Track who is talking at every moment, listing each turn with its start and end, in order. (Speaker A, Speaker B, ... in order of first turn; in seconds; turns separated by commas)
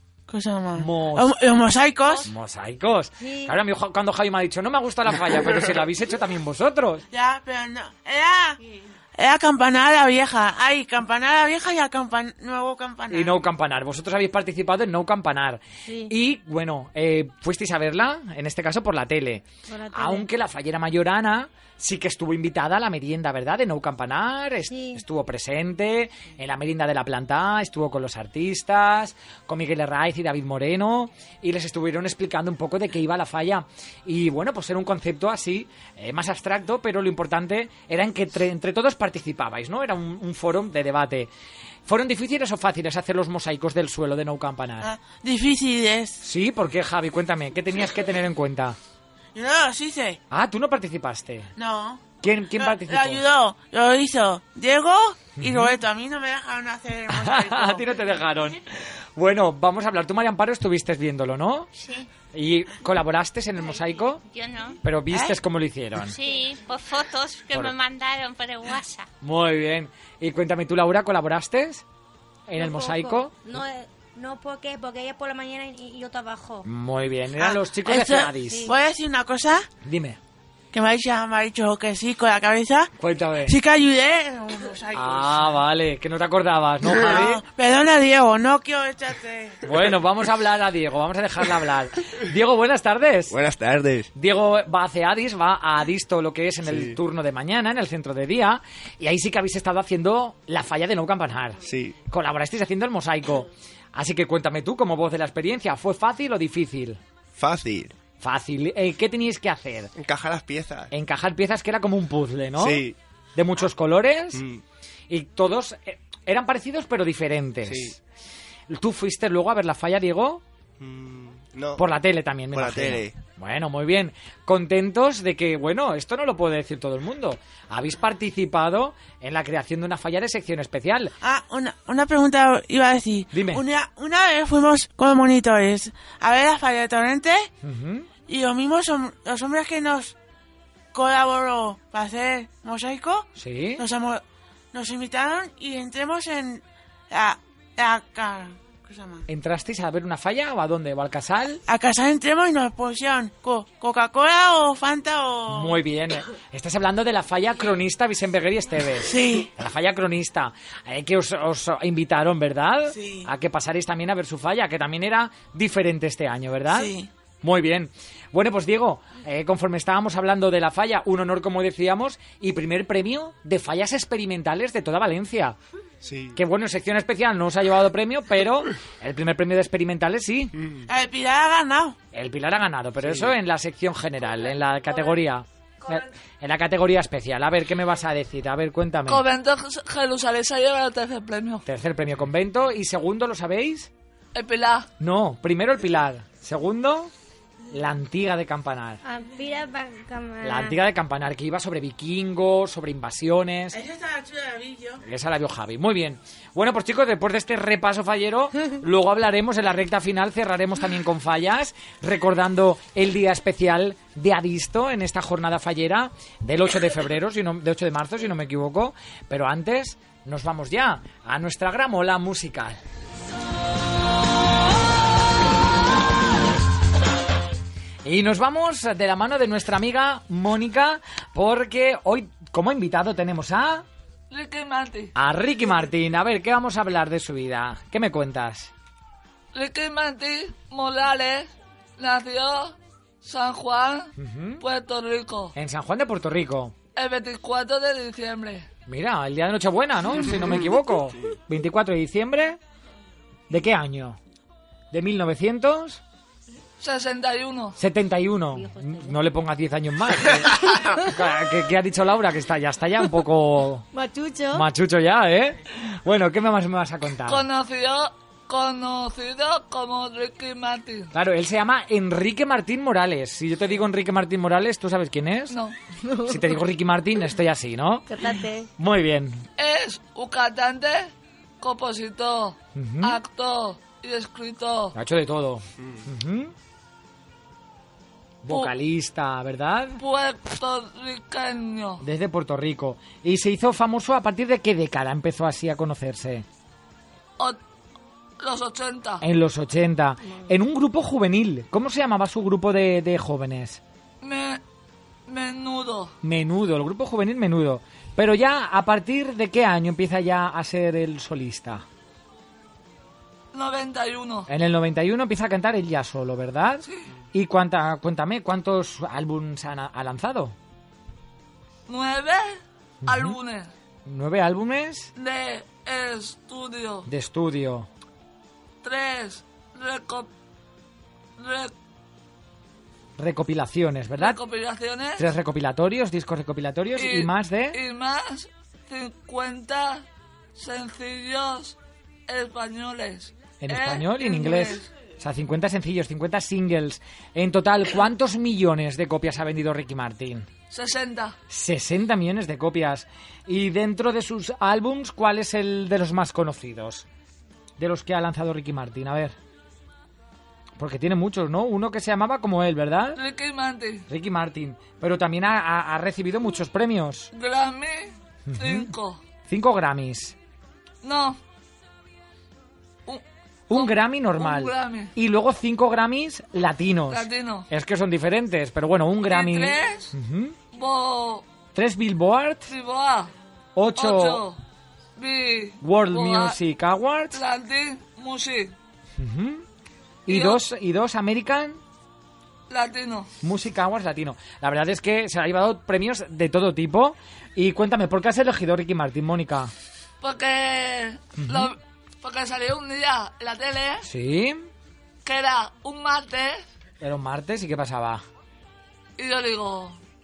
Speaker A: 0.3-2.3, Speaker B: 0.8-1.4, Speaker B: 2.2-7.0, Speaker C: 3.2-3.5, Speaker A: 7.1-8.6, Speaker A: 9.2-13.4, Speaker B: 13.1-41.3, Speaker C: 15.9-16.1, Speaker C: 19.7-20.3, Speaker C: 24.7-25.0, Speaker B: 41.9-44.9, Speaker A: 44.8-46.2, Speaker B: 46.2-48.8, Speaker A: 49.3-50.2, Speaker B: 50.3-51.5, Speaker A: 51.6-57.9, Speaker B: 52.2-53.2, Speaker B: 55.4-55.7, Speaker B: 57.1-61.7, Speaker D: 61.8-62.1, Speaker B: 62.3-64.2, Speaker D: 64.3-64.8, Speaker B: 64.8-66.2, Speaker A: 65.1-65.4, Speaker D: 66.1-69.1, Speaker B: 69.2-71.8, Speaker B: 72.5-73.3, Speaker C: 72.6-76.7, Speaker B: 76.6-78.7, Speaker A: 77.4-79.7, Speaker C: 78.4-78.7, Speaker B: 79.8-80.2, Speaker A: 80.7-82.9, Speaker B: 83.0-83.6, Speaker A: 83.5-85.5, Speaker B: 84.9-87.4, Speaker A: 86.9-89.7, Speaker B: 89.6-93.4, Speaker E: 93.3-94.1, Speaker B: 94.2-107.0, Speaker E: 96.7-97.0, Speaker E: 101.7-102.0, Speaker E: 107.4-108.0, Speaker B: 108.2-109.9, Speaker E: 110.0-110.9, Speaker B: 110.9-114.4, Speaker E: 112.6-113.0, Speaker E: 114.3-114.6, Speaker B: 115.1-118.0, Speaker E: 117.7-118.0, Speaker B: 118.7-120.4, Speaker E: 120.8-121.8, Speaker B: 121.8-131.1, Speaker E: 122.5-123.1, Speaker A: 131.2-137.5, Speaker B: 133.3-133.6, Speaker B: 137.6-138.1, Speaker A: 138.3-140.2, Speaker A: 140.9-149.2, Speaker B: 143.4-143.8, Speaker B: 149.3-151.6, Speaker A: 151.7-155.8, Speaker B: 155.5-175.6, Speaker A: 159.0-159.5, Speaker A: 162.9-163.3, Speaker A: 166.7-167.1, Speaker E: 176.0-176.4, Speaker B: 176.3-180.5, Speaker A: 180.9-182.0, Speaker B: 182.1-189.2, Speaker E: 183.0-183.3, Speaker F: 189.1-191.7, Speaker B: 191.7-193.9, Speaker F: 194.3-194.9, Speaker B: 195.0-197.1, Speaker B: 197.7-199.0, Speaker C: 199.0-200.8, Speaker B: 200.4-203.8, Speaker A: 203.7-205.0, Speaker B: 205.0-222.8, Speaker B: 228.1-233.9, Speaker F: 234.3-235.1, Speaker B: 235.2-238.7, Speaker F: 239.5-245.5, Speaker B: 244.2-244.6, Speaker B: 245.6-246.8, Speaker F: 247.0-248.7, Speaker B: 248.9-252.6, Speaker B: 253.5-254.2, Speaker B: 254.9-256.0, Speaker F: 256.8-257.8, Speaker B: 257.8-263.9, Speaker C: 258.6-259.2, Speaker C: 263.9-264.7, Speaker B: 264.5-267.4, Speaker F: 267.3-271.1, Speaker B: 271.1-275.6, Speaker C: 276.1-276.4, Speaker B: 276.3-278.1, Speaker C: 278.1-278.7, Speaker B: 278.8-279.4, Speaker F: 279.6-284.9, Speaker B: 282.8-283.2, Speaker B: 284.9-286.5, Speaker B: 288.4-290.0, Speaker F: 290.0-292.0, Speaker B: 292.0-296.5, Speaker F: 298.4-299.2, Speaker B: 299.2-303.8, Speaker F: 304.2-304.6, Speaker F: 305.3-306.1, Speaker B: 306.2-311.9, Speaker F: 313.5-314.5, Speaker B: 314.5-320.6, Speaker F: 321.9-323.7, Speaker B: 323.0-323.4, Speaker B: 324.1-325.1, Speaker F: 325.2-327.1, Speaker B: 327.1-327.9, Speaker F: 328.8-330.3, Speaker F: 331.4-331.7, Speaker B: 333.2-334.4, Speaker F: 334.2-335.2, Speaker B: 335.2-337.8, Speaker F: 337.0-341.8, Speaker F: 342.3-344.9, Speaker B: 343.6-350.5, Speaker F: 350.7-351.4, Speaker B: 351.5-357.1, Speaker B: 357.8-359.4, Speaker B: 360.8-363.2, Speaker F: 363.2-364.1, Speaker B: 364.1-367.3, Speaker F: 367.3-369.2, Speaker B: 368.5-368.9, Speaker B: 369.5-370.4, Speaker F: 371.0-371.4, Speaker F: 373.1-375.1, Speaker B: 373.7-380.6, Speaker F: 377.1-377.7, Speaker F: 379.3-380.1, Speaker F: 380.7-381.4, Speaker B: 381.8-382.7, Speaker F: 382.7-383.3, Speaker B: 383.8-384.4, Speaker F: 384.0-384.6, Speaker F: 385.2-386.6, Speaker B: 385.8-387.4, Speaker F: 387.3-388.7, Speaker B: 389.2-389.6, Speaker B: 390.3-391.8, Speaker F: 390.3-390.6, Speaker F: 392.7-393.3, Speaker B: 393.4-399.7, Speaker F: 400.2-404.1, Speaker B: 401.4-401.7, Speaker B: 404.0-404.7, Speaker F: 405.2-406.6, Speaker B: 407.0-408.2, Speaker F: 409.2-410.0